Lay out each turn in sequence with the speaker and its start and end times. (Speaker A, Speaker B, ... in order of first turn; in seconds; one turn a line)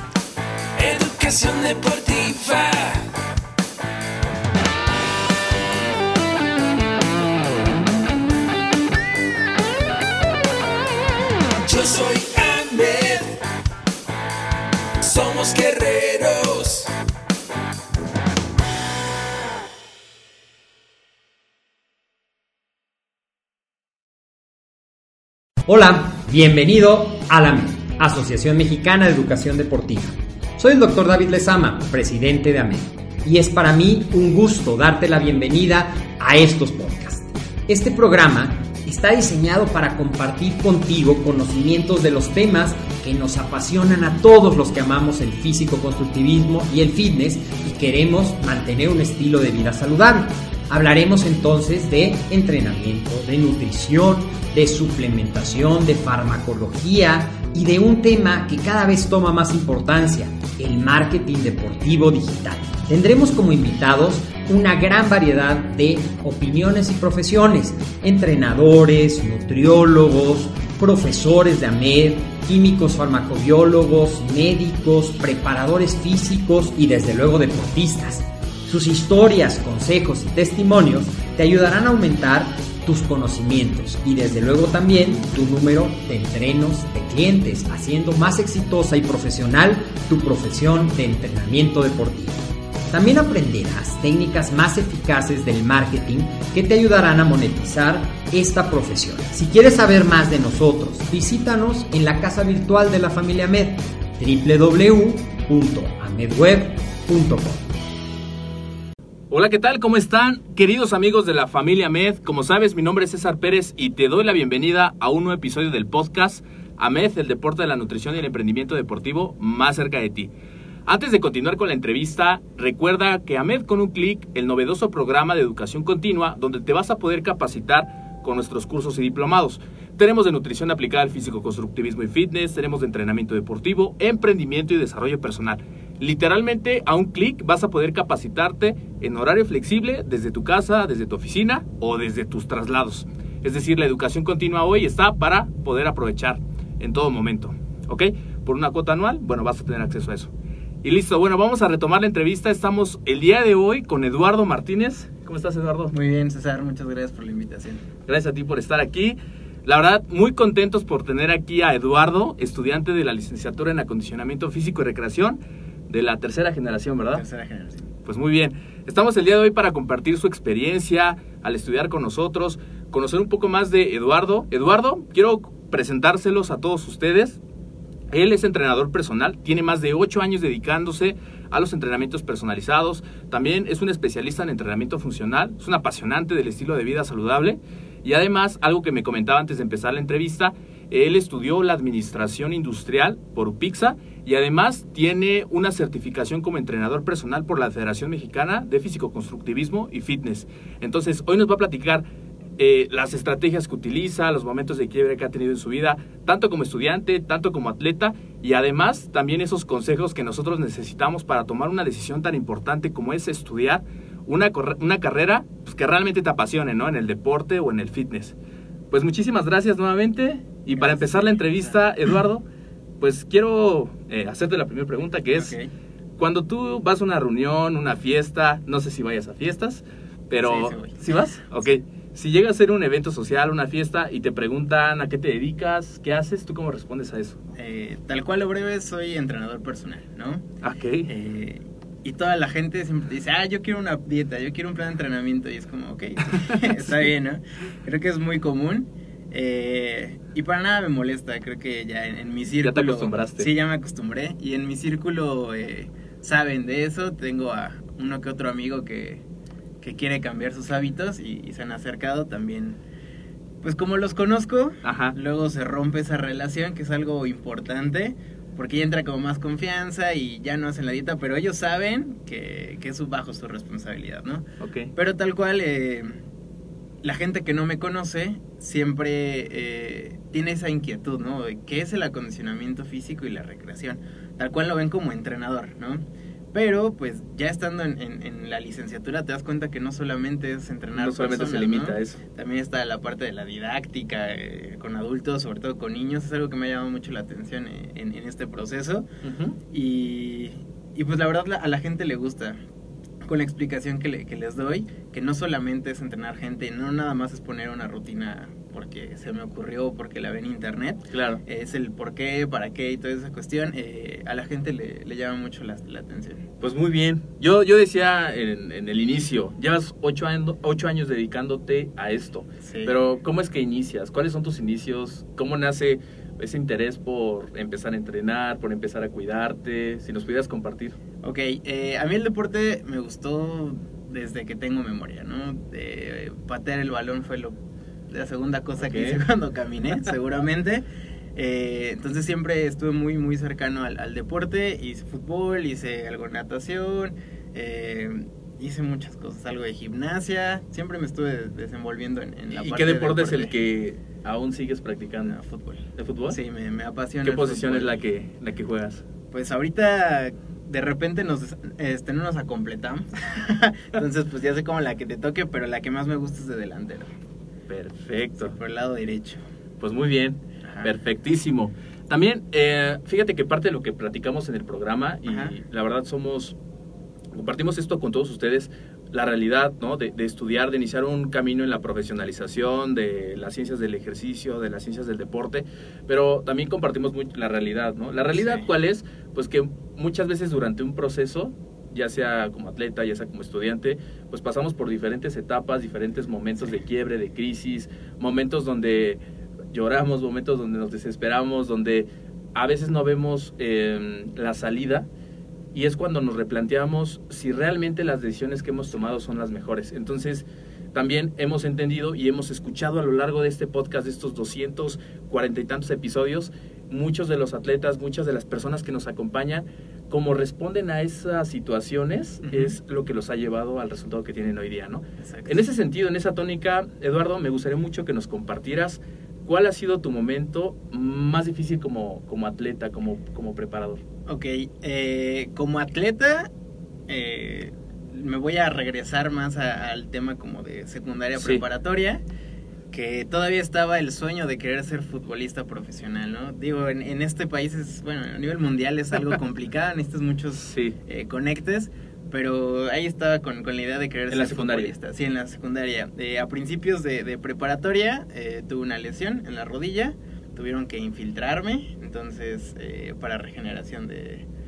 Speaker A: 0.8-3.1
Speaker A: 11.6-13.4
Speaker A: 15.0-16.9
Speaker B: 25.6-107.6
Speaker C: 109.3-120.3
Speaker C: 120.9-150.3
Speaker C: 150.8-155.9
Speaker D: 155.9-157.8
Speaker C: 158.1-167.2
Speaker D: 167.1-167.9
Speaker C: 168.0-177.4
Speaker C: 178.1-202.0
Speaker C: 202.6-218.3
Speaker C: 218.9-222.4
Speaker D: 220.8-221.4
Speaker C: 223.0-225.5
Speaker D: 225.3-225.7
Speaker C: 226.2-237.4
Speaker D: 230.4-231.0
Speaker D: 237.6-240.4
Speaker C: 240.6-241.1
Speaker D: 241.1-259.2
Speaker C: 246.5-247.1
Speaker C: 252.6-253.5
Speaker D: 259.8-262.8
Speaker D: 263.6-276.2
Speaker C: 264.8-265.1
Speaker C: 274.6-274.9
Speaker D: 277.0-299.1
Speaker C: 290.9-292.2
Speaker C: 299.2-299.6
Speaker D: 299.7-302.6
Speaker D: 303.2-316.4
Speaker C: 311.1-311.4
Speaker C: 316.6-331.0
Speaker D: 322.6-322.9
Speaker D: 331.2-337.6
Speaker D: 338.1-340.8
Speaker C: 338.8-339.2
Speaker D: 341.4-353.5
Speaker C: 352.5-355.4
Speaker D: 355.2-357.9
Speaker C: 355.9-356.4
Speaker C: 357.2-359.1
Speaker D: 359.3-367.1
Speaker C: 367.7-368.6
Speaker D: 368.4-369.4
Speaker C: 369.8-376.6
Speaker D: 370.6-370.9
Speaker D: 375.2-375.5
Speaker C: 377.3-399.2
Speaker D: 388.3-388.6
Speaker C: 399.7-405.1
Speaker C: 405.7-434.0
Speaker D: 422.4-422.7
Speaker D: 425.2-425.6
Speaker D: 434.3-436.5
Speaker D: 437.1-442.2
Speaker C: 441.3-441.6
Speaker D: 442.9-464.4
Speaker C: 450.6-450.9
Speaker C: 454.3-454.9